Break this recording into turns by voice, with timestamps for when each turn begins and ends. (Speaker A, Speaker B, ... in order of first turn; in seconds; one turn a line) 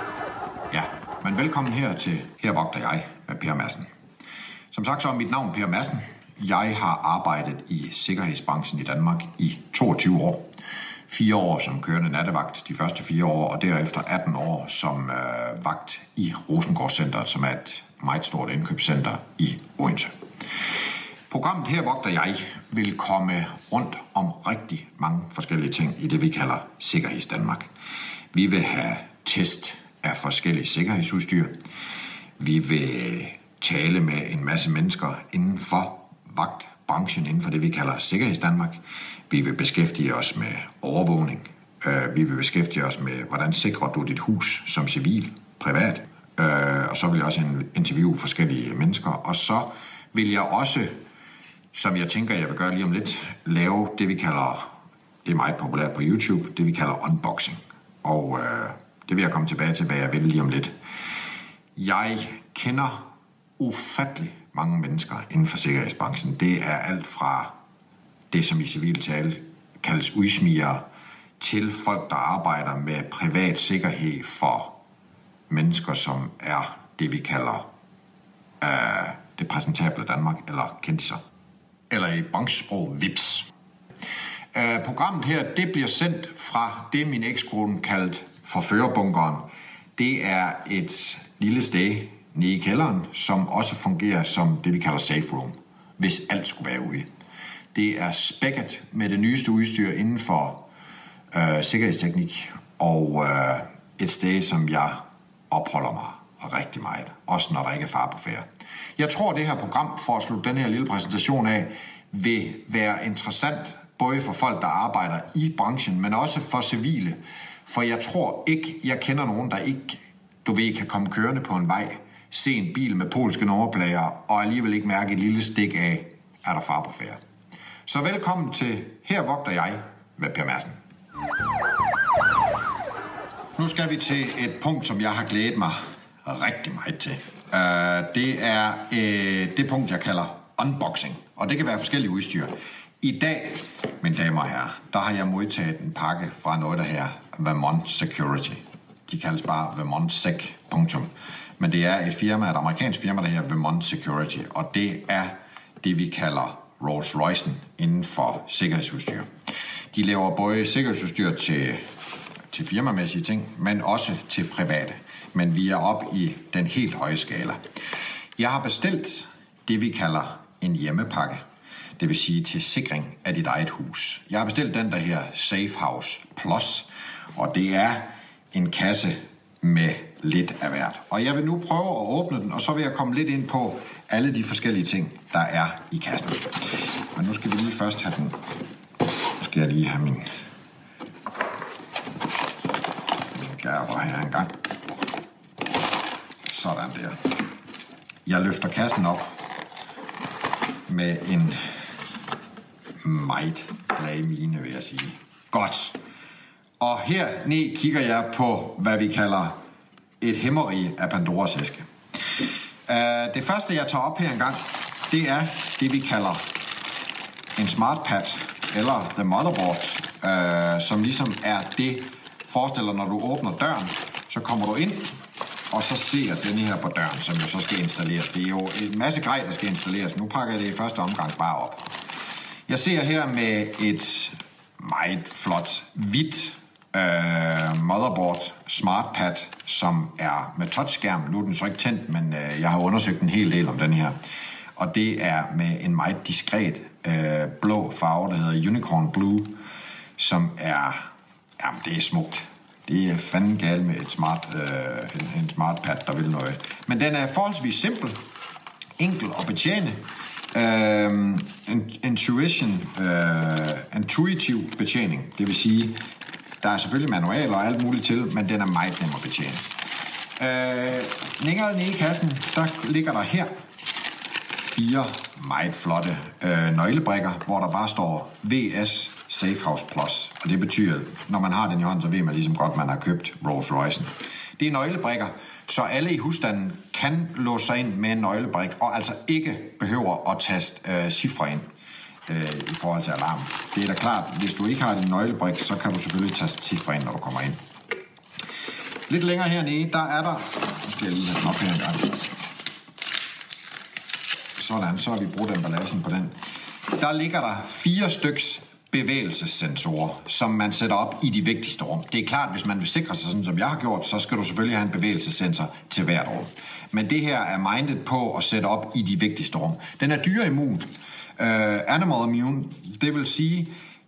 Speaker A: 0.7-3.9
Speaker A: 4.7-10.5
Speaker A: 11.1-20.2
Speaker A: 21.3-27.7
Speaker A: 28.3-31.6
Speaker A: 32.4-51.0
Speaker A: 51.7-54.7
Speaker A: 55.2-60.7
Speaker A: 61.8-67.5
Speaker A: 68.3-70.8
Speaker A: 71.4-74.8
Speaker A: 75.5-77.7
Speaker A: 78.6-81.2
Speaker A: 81.9-83.5
Speaker A: 84.5-97.1
Speaker A: 97.7-100.7
Speaker A: 101.3-108.5
Speaker A: 109.0-127.2
Speaker A: 127.9-130.8
Speaker A: 133.6-159.3
Speaker A: 159.9-161.9
Speaker A: 162.5-167.6
Speaker A: 168.4-171.4
Speaker A: 172.0-188.4
Speaker A: 189.4-190.3
Speaker A: 193.3-194.6
Speaker A: 196.4-197.2
Speaker A: 198.3-199.3
Speaker A: 200.9-201.6
Speaker A: 203.0-206.0
Speaker A: 206.8-209.6
Speaker A: 210.2-211.9
Speaker A: 212.9-216.5
Speaker A: 217.6-225.2
Speaker A: 225.7-231.9
Speaker A: 232.7-244.2
Speaker A: 244.8-249.6
Speaker A: 250.2-251.1
Speaker A: 251.6-258.2
Speaker A: 259.0-266.0
Speaker A: 266.6-269.8
Speaker A: 270.4-273.5
Speaker A: 274.6-291.7
Speaker A: 292.3-297.6
Speaker A: 299.1-302.3
Speaker A: 304.6-306.4
Speaker A: 306.9-323.8